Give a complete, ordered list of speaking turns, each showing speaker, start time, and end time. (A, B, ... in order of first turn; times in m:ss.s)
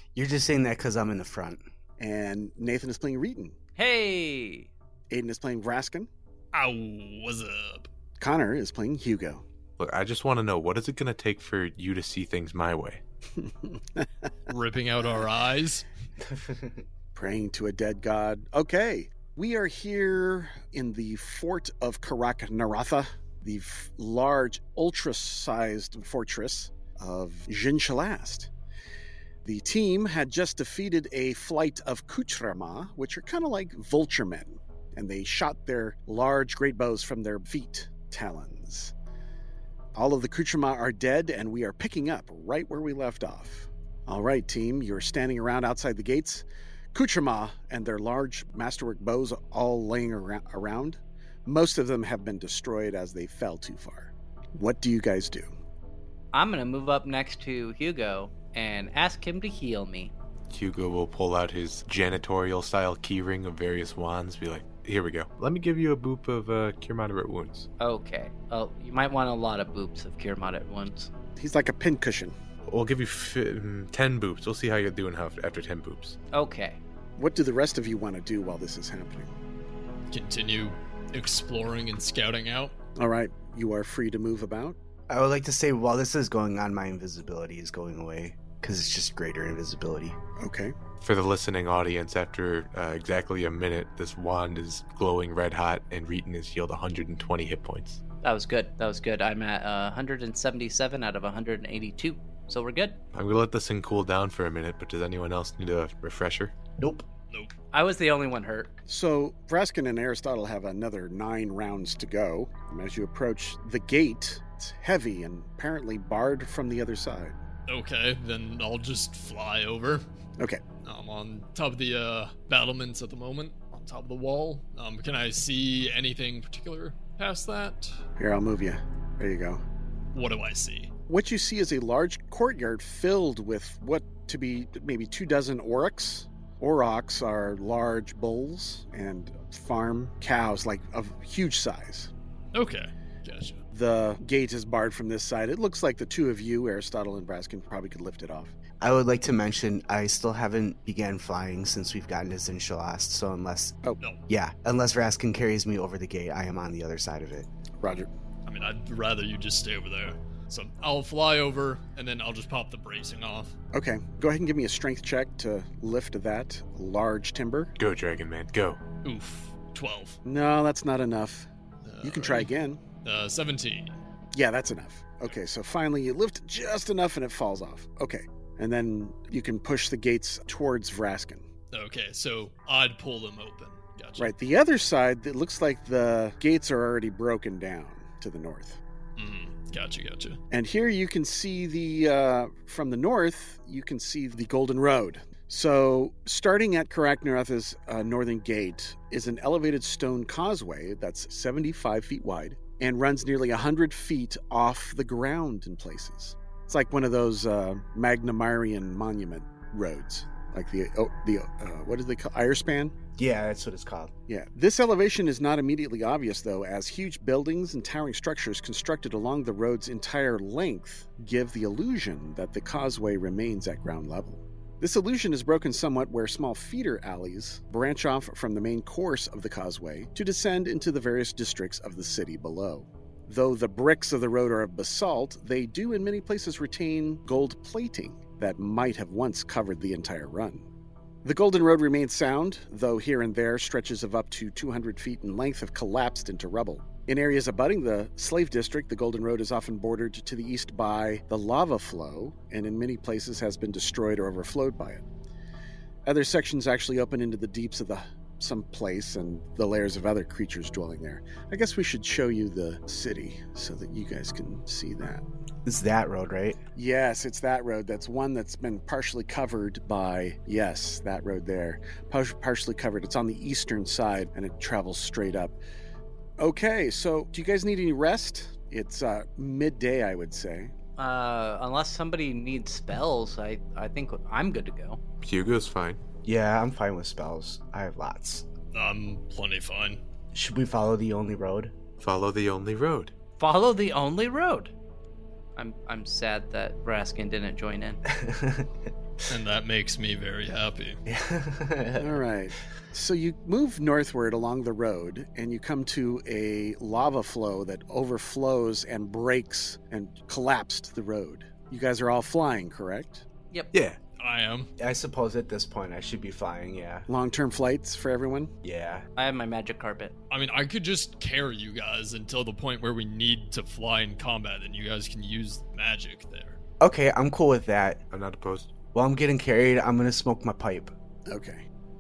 0:00.2-0:01.6 A
0:02.0-0:03.6 B
0:03.8-0:04.7 C
0:05.1-0:06.1 B
0:06.5-0:07.9 D
0:08.2-0:09.4 B
0:09.8-0:13.0 E
0:13.4-0:14.1 B
0:14.5-0:15.9 D
0:16.2-0:16.8 A
0:17.2-0:28.5 B
0:29.4-0:38.9 B
0:40.0-0:55.5 B
0:56.3-1:00.1 C
1:00.5-1:07.7 E
1:07.8-1:11.1 C
1:11.4-1:12.4 B
1:12.7-1:16.2 E
1:16.3-1:16.8 C
1:17.2-1:19.3 B
1:20.1-1:22.8 D
1:23.0-1:24.8 B
1:25.1-1:30.2 A
1:30.4-1:30.8 B
1:31.0-1:38.0 E
1:38.2-1:43.0 C
1:43.1-1:46.5 E
1:46.8-1:47.1 A
1:47.7-1:48.7 C
1:48.9-1:57.4 B
1:57.7-2:00.0 D
2:00.8-2:08.0 D
2:08.2-2:09.6 B
2:10.1-2:10.9 D
2:11.1-2:22.1 B
2:22.5-2:23.6 D
2:23.7-2:28.5 B
2:28.8-2:33.8 A
2:34.3-2:37.5 A
2:37.8-2:38.1 B
2:38.5-2:43.6 D
2:43.7-2:47.7 B
2:47.8-2:48.8 E
2:49.0-2:50.2 D
2:50.2-2:51.5 B
2:51.8-2:52.5 D
2:52.0-2:52.8 B
2:53.0-2:54.0 D
2:54.3-3:01.5 B
3:01.7-3:04.3 D
3:04.2-3:08.8 B
3:09.2-3:10.4 D
3:10.5-3:32.9 B
3:33.2-3:34.1 A
3:34.3-4:00.7 B
4:01.2-4:15.0 B
4:16.0-4:25.2 B
4:25.6-4:26.6 A
4:26.8-4:35.6 B
4:36.4-4:40.7 B
4:41.0-4:45.0 C
4:45.2-4:46.0 E
4:46.2-4:48.4 A
4:48.7-4:50.0 D
4:50.3-4:51.7 A
4:52.0-4:53.1 E
4:53.4-4:54.7 C
4:55.6-4:58.0 C
4:58.1-4:58.7 A
4:59.3-5:01.0 D
5:01.1-5:02.2 A
5:02.0-5:13.2 B
5:13.7-5:14.0 E
5:14.2-5:14.7 D
5:14.8-5:17.1 A
5:17.1-5:18.5 B
5:18.6-5:19.1 A
5:19.2-5:20.1 C
5:20.3-5:26.6 D
5:26.8-5:28.0 A
5:28.1-5:28.8 E
5:28.9-5:30.9 A
5:31.3-5:31.6 B